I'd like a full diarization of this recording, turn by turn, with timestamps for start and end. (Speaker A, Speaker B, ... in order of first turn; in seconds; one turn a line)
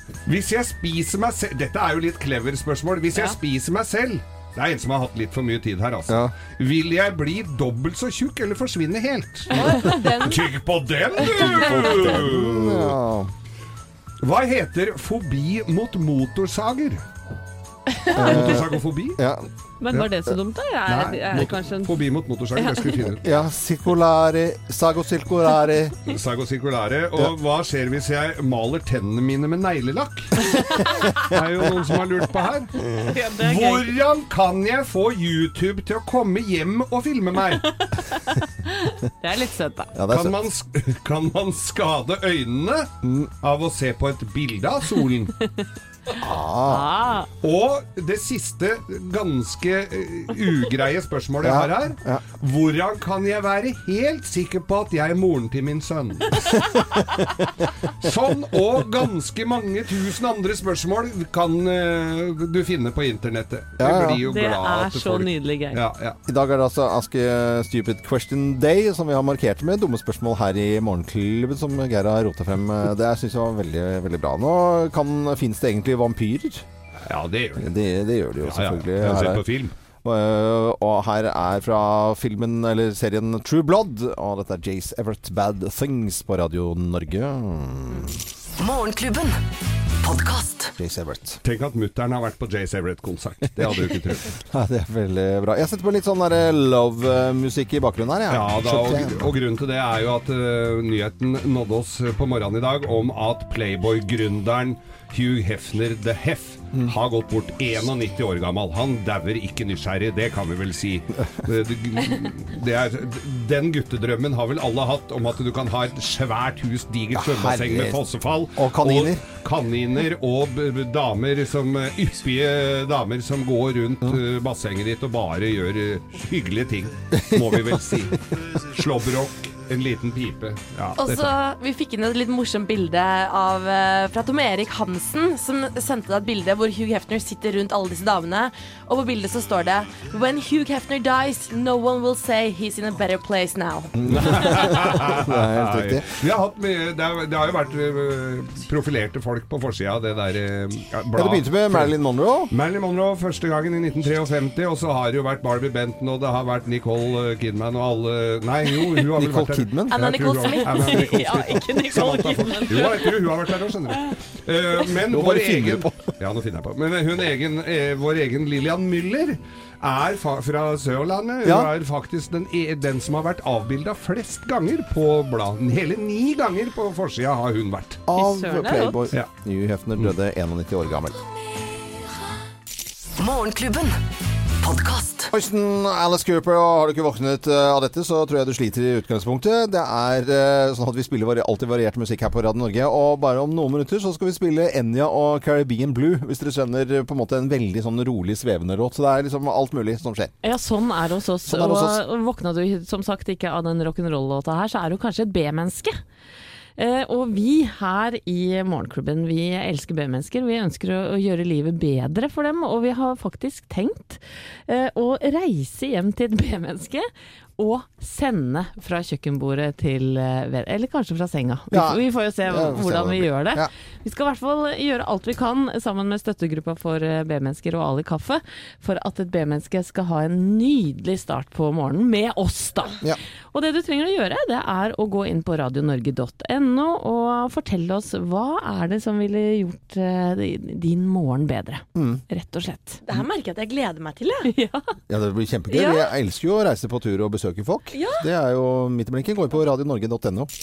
Speaker A: 0.3-13.0
Speaker B: 6.1-6.3
Speaker C: 9.5-10.5
Speaker D: 9.6-10.2
Speaker B: 11.2-13.3
Speaker A: 14.2-17.0
Speaker D: 18.1-18.3
Speaker B: 18.1-20.4
Speaker A: 18.2-19.2
Speaker D: 19.8-22.0
Speaker A: 20.9-23.3
Speaker D: 22.6-23.1
Speaker B: 23.2-26.0
Speaker A: 26.1-32.9
Speaker D: 32.9-33.9
Speaker A: 33.4-37.7
Speaker D: 38.7-40.0
Speaker B: 39.9-40.4
Speaker A: 40.1-42.9
Speaker B: 43.0-43.3
Speaker A: 43.4-45.3
Speaker B: 46.2-46.9
Speaker D: 46.7-47.3
Speaker A: 47.4-57.0
Speaker B: 51.4-52.2
Speaker A: 57.9-66.2
Speaker B: 63.8-64.3
Speaker D: 64.2-65.8
Speaker B: 66.3-76.7
Speaker A: 77.0-77.8
Speaker B: 77.6-79.5
Speaker A: 78.4-79.7
Speaker B: 80.0-88.2
Speaker E: 88.6-89.4
Speaker E: 90.0-90.7
Speaker B: 90.8-91.4
Speaker A: 91.4-94.4
Speaker B: 93.6-93.8
Speaker B: 94.4-99.3
Speaker A: 98.3-131.3
Speaker B: 111.2-111.5
Speaker B: 117.1-118.0
Speaker B: 118.5-119.2
Speaker B: 127.1-128.1
Speaker C: 131.0-144.4
Speaker B: 143.9-146.2
Speaker A: 144.1-151.9
Speaker B: 151.2-152.5
Speaker A: 152.5-178.0
Speaker B: 159.1-160.0
Speaker C: 159.9-161.1
Speaker D: 160.7-163.3
Speaker B: 165.0-166.2
Speaker B: 171.4-171.7
Speaker B: 178.1-181.2
Speaker D: 178.2-179.0
Speaker E: 181.6-181.8
Speaker E: 183.2-184.0
Speaker E: 184.6-185.3
Speaker B: 185.3-200.3
Speaker D: 200.4-206.0
Speaker B: 201.4-202.0
Speaker D: 206.8-233.0
Speaker B: 221.7-223.7
Speaker D: 233.5-243.0
Speaker B: 241.9-242.2
Speaker C: 243.0-244.5
Speaker D: 244.5-244.9
Speaker B: 245.1-250.5
Speaker C: 245.7-246.1
Speaker C: 247.9-248.3